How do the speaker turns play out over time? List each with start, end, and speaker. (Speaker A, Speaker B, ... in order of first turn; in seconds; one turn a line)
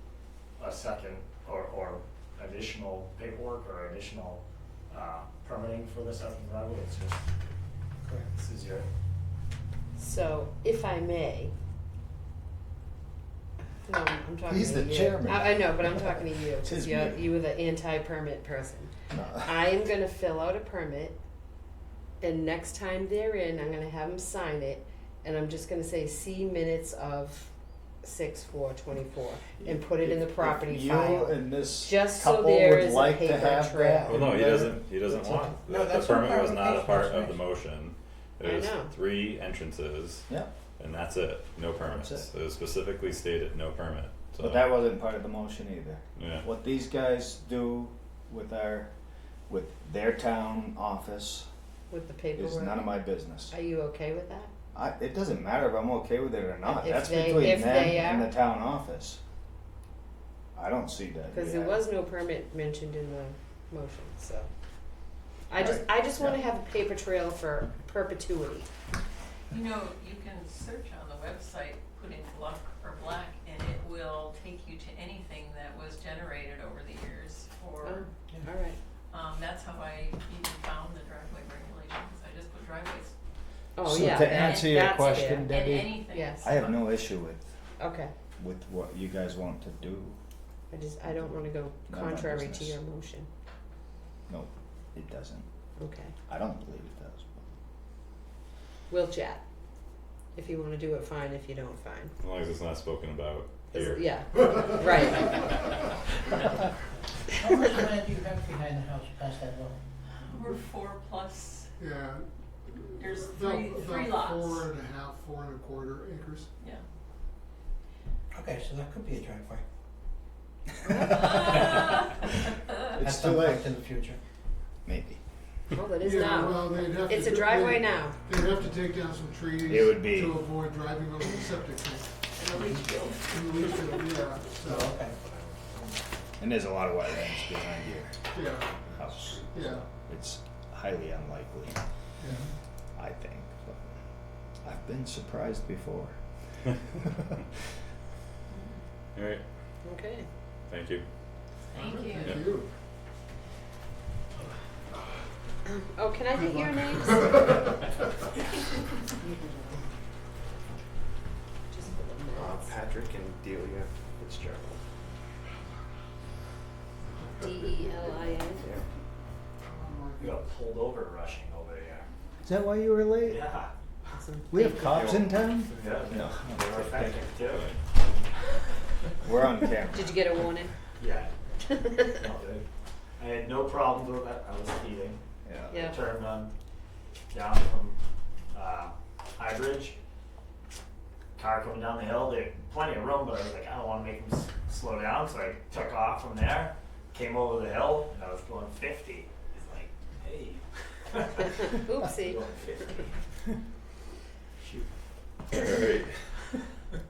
Speaker A: 0.6-7.2
Speaker A: 8.2-8.9
Speaker B: 10.0-11.5
Speaker B: 13.8-21.2
Speaker C: 14.4-17.3
Speaker C: 19.1-19.5
Speaker B: 22.2-27.5
Speaker B: 28.0-34.2
Speaker C: 29.6-35.5
Speaker D: 34.1-44.7
Speaker E: 35.6-37.4
Speaker B: 38.4-38.9
Speaker C: 41.8-42.3
Speaker C: 44.4-48.9
Speaker D: 46.2-46.5
Speaker C: 49.5-51.5
Speaker B: 51.9-52.9
Speaker C: 52.4-53.5
Speaker B: 53.5-54.5
Speaker C: 54.7-59.2
Speaker B: 56.6-58.3
Speaker C: 60.5-61.8
Speaker B: 61.3-64.5
Speaker B: 65.5-68.7
Speaker C: 65.5-66.4
Speaker F: 69.5-78.1
Speaker B: 77.8-78.8
Speaker F: 79.1-83.1
Speaker B: 83.8-85.5
Speaker C: 83.8-87.4
Speaker F: 84.0-87.0
Speaker B: 86.1-86.4
Speaker B: 87.8-88.1
Speaker C: 88.4-90.2
Speaker B: 90.7-93.3
Speaker C: 91.0-92.8
Speaker C: 94.3-95.5
Speaker B: 95.8-96.1
Speaker C: 96.3-97.5
Speaker B: 98.9-99.4
Speaker B: 100.3-102.1
Speaker D: 102.2-104.1
Speaker B: 103.7-105.6
Speaker E: 107.3-109.8
Speaker F: 110.2-111.7
Speaker G: 111.8-116.5
Speaker F: 113.0-114.7
Speaker E: 118.3-119.6
Speaker B: 120.9-121.7
Speaker C: 120.9-121.5
Speaker F: 121.1-122.3
Speaker C: 123.0-123.6
Speaker E: 123.0-124.2
Speaker C: 124.8-125.2
Speaker B: 125.7-128.2
Speaker G: 126.0-135.0
Speaker C: 129.7-130.4
Speaker F: 132.4-134.1
Speaker E: 134.7-135.1
Speaker C: 136.4-138.2
Speaker G: 138.3-138.7
Speaker C: 139.0-139.4
Speaker H: 139.0-139.8
Speaker G: 139.5-139.8
Speaker C: 140.0-141.8
Speaker G: 142.2-142.5
Speaker C: 142.9-143.9
Speaker C: 144.6-146.2
Speaker C: 146.8-147.4
Speaker F: 148.5-148.8
Speaker D: 149.1-149.4
Speaker B: 149.8-150.3
Speaker D: 150.7-151.0
Speaker F: 151.7-152.4
Speaker G: 151.7-152.7
Speaker B: 155.7-157.5
Speaker G: 156.4-157.8
Speaker B: 159.2-159.8
Speaker B: 161.7-162.8
Speaker H: 162.3-164.8
Speaker B: 167.4-168.7
Speaker G: 169.6-170.4
Speaker A: 170.2-172.1
Speaker C: 172.4-173.4
Speaker A: 173.2-173.7
Speaker B: 174.1-175.1
Speaker C: 174.5-177.1
Speaker H: 175.1-175.3
Speaker A: 175.8-178.0
Speaker D: 177.5-177.7
Speaker C: 179.2-180.2
Speaker B: 179.9-180.7
Speaker A: 181.0-181.3
Speaker A: 182.0-182.6
Speaker A: 183.2-185.2
Speaker C: 185.4-185.9
Speaker B: 185.7-186.0
Speaker A: 185.7-186.5
Speaker A: 187.3-188.0
Speaker A: 188.5-189.9
Speaker A: 191.4-203.1
Speaker B: 201.6-202.4
Speaker A: 204.6-204.9
Speaker D: 205.5-206.3